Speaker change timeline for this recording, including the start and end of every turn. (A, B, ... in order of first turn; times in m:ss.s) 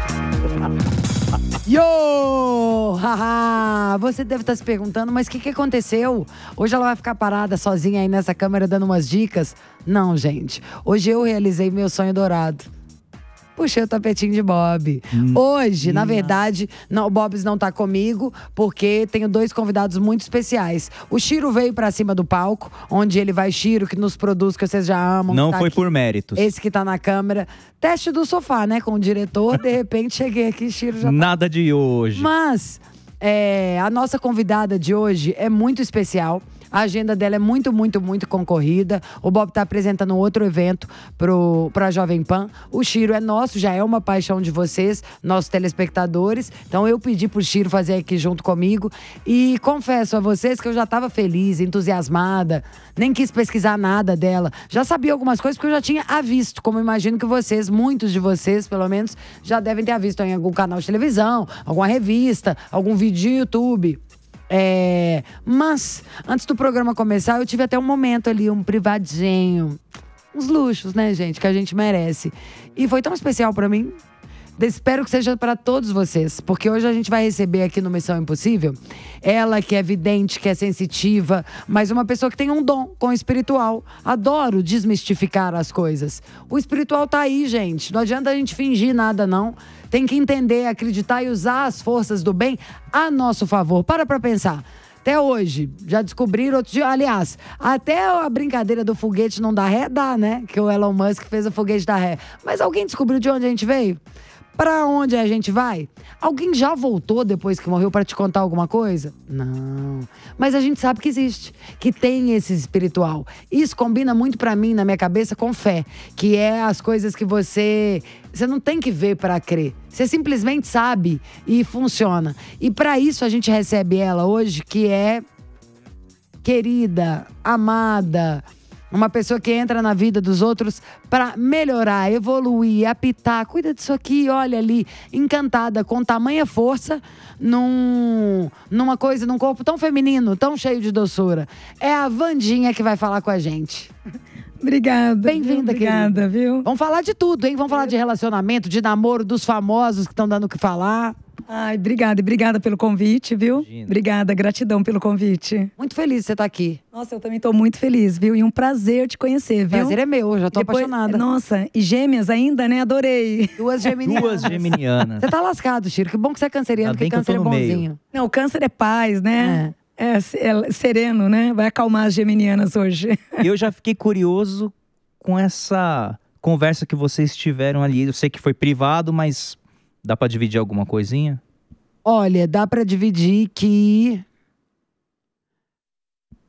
0:01.6-0:12.7 A
0:13.6-0:25.8 A
0:15.1-0:16.3 B
0:25.3-0:26.5 B
0:26.4-0:31.3 A
0:31.0-0:32.3 B
0:32.2-1:09.8 A
1:10.3-1:14.0 A
1:14.6-1:44.0 A
1:44.6-2:05.2 A
2:06.4-2:23.9 A
2:24.6-2:26.7 C
2:25.2-2:31.2 A
2:31.5-2:35.7 C
2:33.6-2:33.9 B
2:35.8-2:36.8 A
2:36.9-2:40.0 C
2:39.7-2:41.2 A
2:40.5-2:43.6 C
2:43.6-2:48.0 A
2:44.0-2:45.3 B
2:44.2-2:44.5 C
2:46.8-2:47.8 B
2:48.1-2:53.4 C
2:49.4-2:49.7 A
2:53.4-3:01.4 B
3:02.0-3:04.2 A